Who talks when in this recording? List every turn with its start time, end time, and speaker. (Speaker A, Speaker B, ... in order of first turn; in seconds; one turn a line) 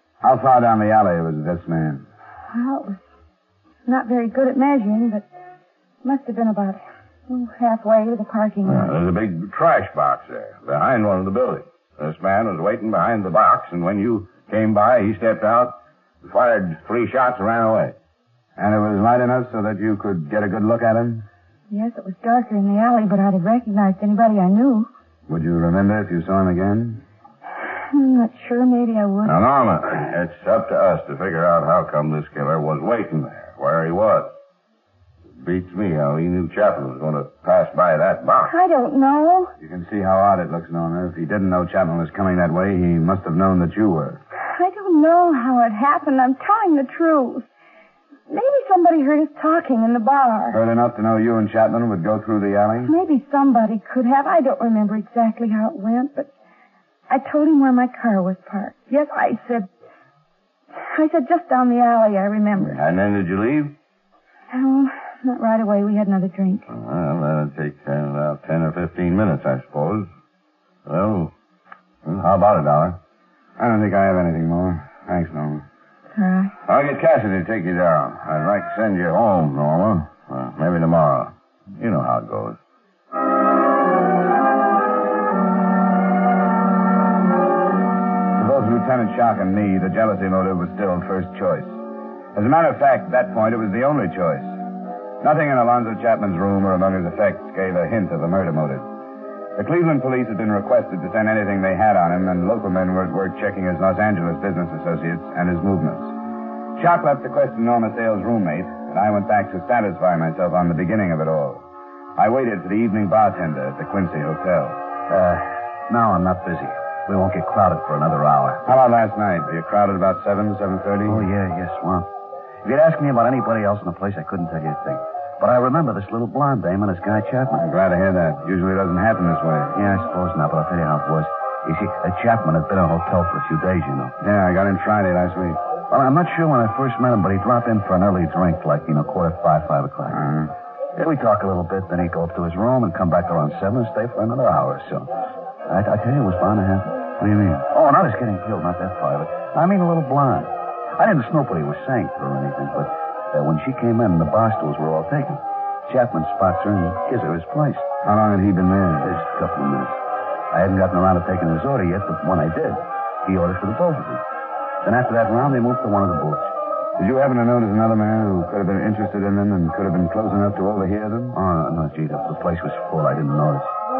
Speaker A: 0.2-2.0
Speaker B: 2.5-3.0
Speaker B: 3.9-5.2
Speaker B: 6.0-8.9
Speaker C: 8.6-17.9
Speaker A: 18.6-21.3
Speaker B: 21.7-24.9
Speaker A: 25.3-27.0
Speaker B: 27.8-29.4
Speaker C: 29.2-34.3
Speaker C: 35.4-38.5
Speaker B: 38.5-39.5
Speaker A: 39.6-44.2
Speaker B: 44.5-47.4
Speaker B: 48.3-50.6
Speaker A: 50.5-52.9
Speaker B: 52.8-56.3
Speaker B: 57.1-59.7
Speaker B: 60.8-62.8
Speaker C: 62.6-63.7
Speaker B: 64.5-66.7
Speaker C: 66.7-70.1
Speaker C: 70.9-71.3
Speaker C: 72.0-73.0
Speaker A: 73.6-75.6
Speaker B: 76.1-76.5
Speaker C: 76.7-82.6
Speaker A: 88.3-91.8
Speaker A: 92.3-94.6
Speaker A: 95.2-98.9
Speaker A: 99.5-106.1
Speaker A: 106.8-111.6
Speaker A: 112.2-114.8
Speaker D: 115.1-118.6
Speaker A: 118.6-121.2
Speaker D: 121.0-122.1
Speaker D: 122.6-127.6
Speaker A: 127.5-129.7
Speaker D: 129.7-134.1
Speaker A: 134.2-135.6
Speaker D: 135.9-140.3
Speaker A: 140.1-140.5
Speaker D: 140.9-157.8
Speaker A: 158.0-159.1
Speaker D: 159.0-160.0
Speaker D: 160.5-164.2
Speaker D: 164.8-166.5
Speaker A: 167.0-171.3
Speaker D: 171.3-173.7